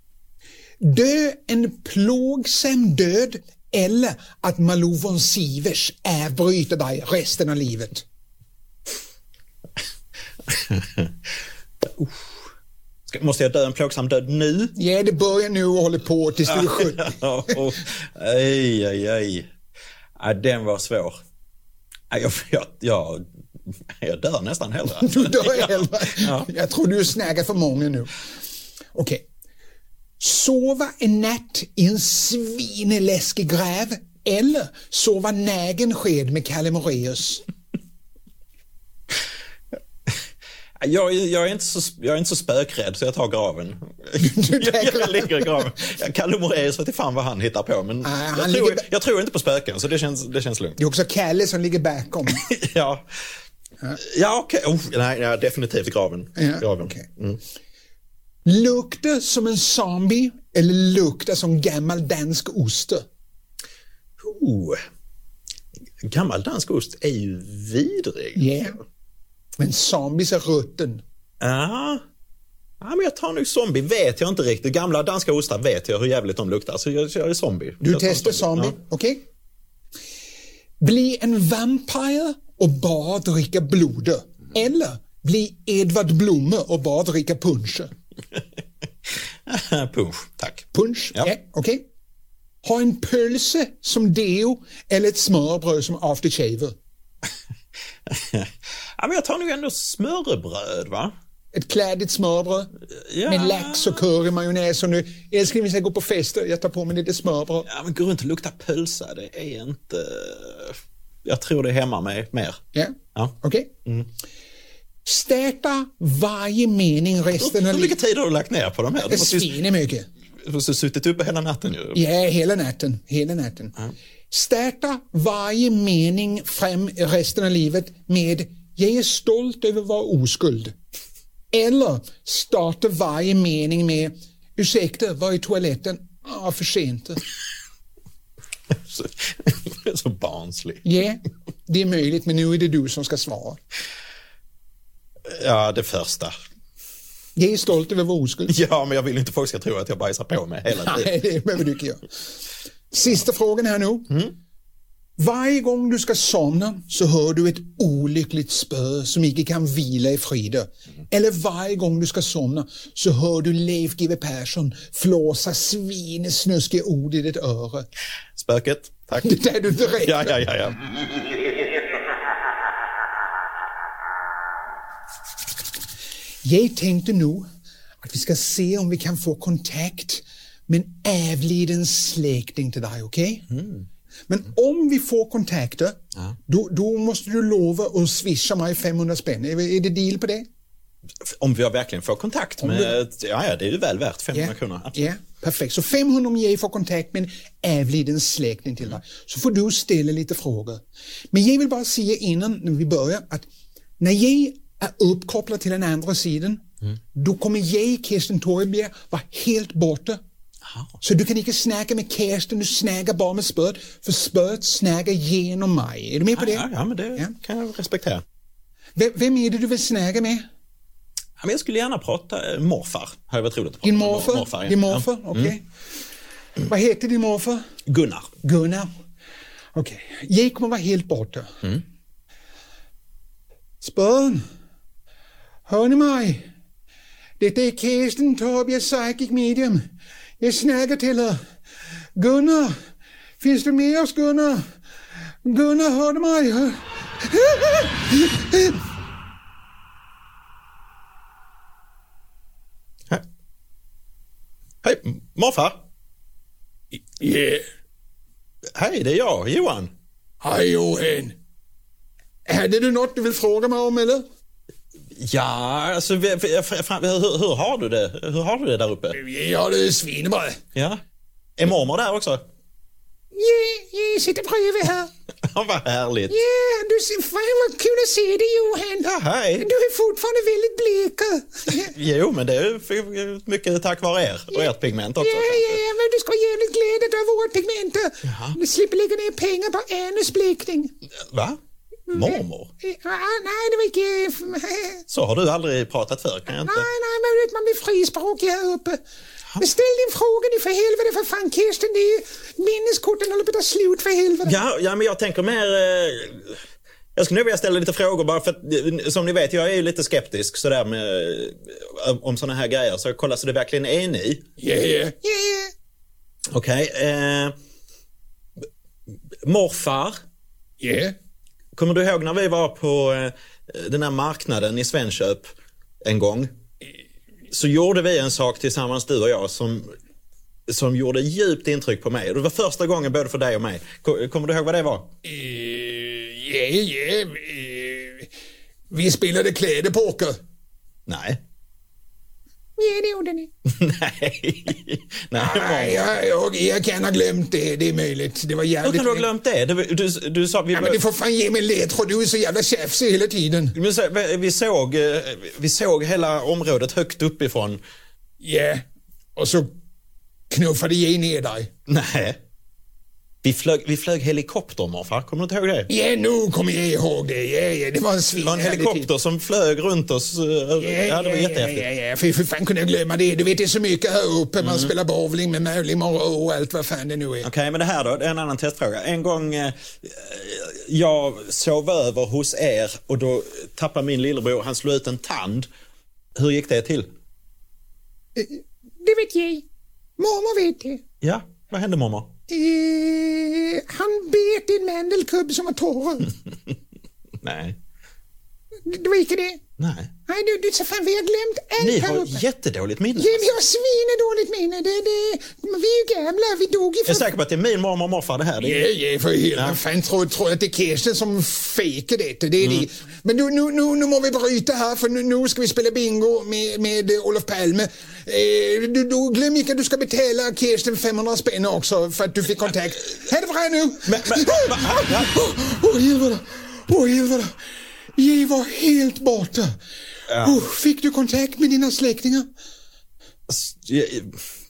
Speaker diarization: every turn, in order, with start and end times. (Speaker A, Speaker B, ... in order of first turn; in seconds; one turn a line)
Speaker A: 0.8-8.0
Speaker B: 10.5-11.1
Speaker B: 11.8-12.3
Speaker B: 13.1-14.8
Speaker A: 14.8-17.6
Speaker B: 16.5-19.5
Speaker B: 20.2-21.2
Speaker B: 22.1-26.5
Speaker A: 25.0-28.2
Speaker A: 28.9-29.3
Speaker A: 30.2-37.4
Speaker B: 40.8-50.8
Speaker A: 44.2-45.7
Speaker A: 48.0-48.9
Speaker A: 50.8-52.5
Speaker B: 52.3-53.2
Speaker B: 54.0-57.4
Speaker A: 56.4-57.1
Speaker A: 58.5-63.0
Speaker B: 64.2-64.8
Speaker B: 66.0-68.6
Speaker A: 68.4-68.8
Speaker A: 69.6-71.0
Speaker B: 71.4-72.0
Speaker B: 72.8-78.8
Speaker A: 77.8-79.2
Speaker A: 80.8-87.9
Speaker B: 89.1-91.3
Speaker A: 90.7-91.9
Speaker A: 92.6-96.8
Speaker B: 98.1-101.1
Speaker A: 101.5-102.7
Speaker B: 103.0-104.0
Speaker A: 103.3-107.7
Speaker B: 107.7-112.6
Speaker A: 112.7-113.7
Speaker A: 115.0-118.0
Speaker B: 117.3-119.6
Speaker A: 119.0-120.1
Speaker B: 120.4-122.0
Speaker A: 122.0-123.8
Speaker A: 124.3-130.8
Speaker A: 131.5-137.2
Speaker B: 138.7-140.8
Speaker A: 140.8-143.6
Speaker B: 145.3-146.4
Speaker A: 147.4-148.5
Speaker B: 148.5-151.1
Speaker A: 150.8-152.0
Speaker A: 152.9-154.1
Speaker A: 155.2-167.9
Speaker B: 168.4-170.8
Speaker A: 169.2-170.4
Speaker A: 176.4-177.5
Speaker A: 178.0-183.5
Speaker B: 183.5-183.8
Speaker A: 184.3-190.5
Speaker B: 191.2-195.1
Speaker A: 192.6-193.0
Speaker A: 194.3-203.5
Speaker A: 204.0-210.2
Speaker B: 210.7-210.9
Speaker A: 211.0-217.3
Speaker B: 216.3-218.2
Speaker A: 219.0-220.4
Speaker B: 221.4-225.5
Speaker A: 223.8-225.6
Speaker A: 226.7-227.7
Speaker B: 227.9-228.3
Speaker A: 228.4-228.9
Speaker A: 229.8-231.7
Speaker A: 233.8-234.4
Speaker A: 235.7-236.5
Speaker A: 237.4-239.9
Speaker A: 240.4-241.4
Speaker A: 242.2-242.8
Speaker A: 243.4-244.7
Speaker A: 245.4-248.8
Speaker B: 254.8-255.8
Speaker A: 257.2-257.7
Speaker B: 258.8-259.9
Speaker A: 260.4-261.4
Speaker A: 262.5-264.2
Speaker B: 265.1-269.2
Speaker A: 269.1-270.6
Speaker B: 270.8-271.0
Speaker B: 271.6-272.4
Speaker A: 273.3-275.1
Speaker B: 275.4-276.4
Speaker A: 276.3-281.9
Speaker B: 279.0-279.7
Speaker B: 281.7-285.8
Speaker A: 284.5-290.9
Speaker B: 288.2-288.6
Speaker B: 291.2-291.6
Speaker B: 292.1-292.7
Speaker A: 292.1-295.0
Speaker B: 295.1-296.9
Speaker A: 296.6-299.0
Speaker A: 299.6-304.6
Speaker B: 304.4-306.6
Speaker B: 307.2-314.5
Speaker A: 314.6-315.7
Speaker B: 316.5-317.6
Speaker B: 319.4-320.2
Speaker A: 320.8-321.1
Speaker B: 321.7-325.5
Speaker B: 326.0-326.5
Speaker B: 327.5-330.0
Speaker B: 330.7-335.1
Speaker A: 335.2-338.3
Speaker A: 338.9-340.4
Speaker B: 341.1-341.4
Speaker A: 342.8-343.5
Speaker B: 343.6-346.1
Speaker A: 345.4-349.3
Speaker B: 348.8-351.0
Speaker A: 350.7-353.8
Speaker B: 353.8-357.8
Speaker A: 358.4-358.8
Speaker A: 359.4-359.7
Speaker A: 360.5-361.7
Speaker B: 361.9-362.4
Speaker B: 363.4-365.9
Speaker A: 365.9-369.1
Speaker B: 368.4-371.9
Speaker A: 370.8-377.5
Speaker B: 374.6-374.9
Speaker B: 377.4-385.7
Speaker B: 386.4-387.1
Speaker A: 388.4-389.6
Speaker A: 390.2-391.0
Speaker B: 391.2-392.4
Speaker A: 392.5-396.3
Speaker B: 397.4-397.8
Speaker A: 398.9-399.6
Speaker B: 399.8-400.1
Speaker A: 400.3-402.4
Speaker B: 401.8-403.5
Speaker A: 403.2-407.2
Speaker B: 407.1-408.9
Speaker A: 408.6-427.6
Speaker B: 409.5-409.8
Speaker B: 412.6-412.9
Speaker B: 424.1-425.3
Speaker A: 428.1-429.8
Speaker B: 430.3-430.6
Speaker A: 430.4-432.5
Speaker B: 433.5-434.4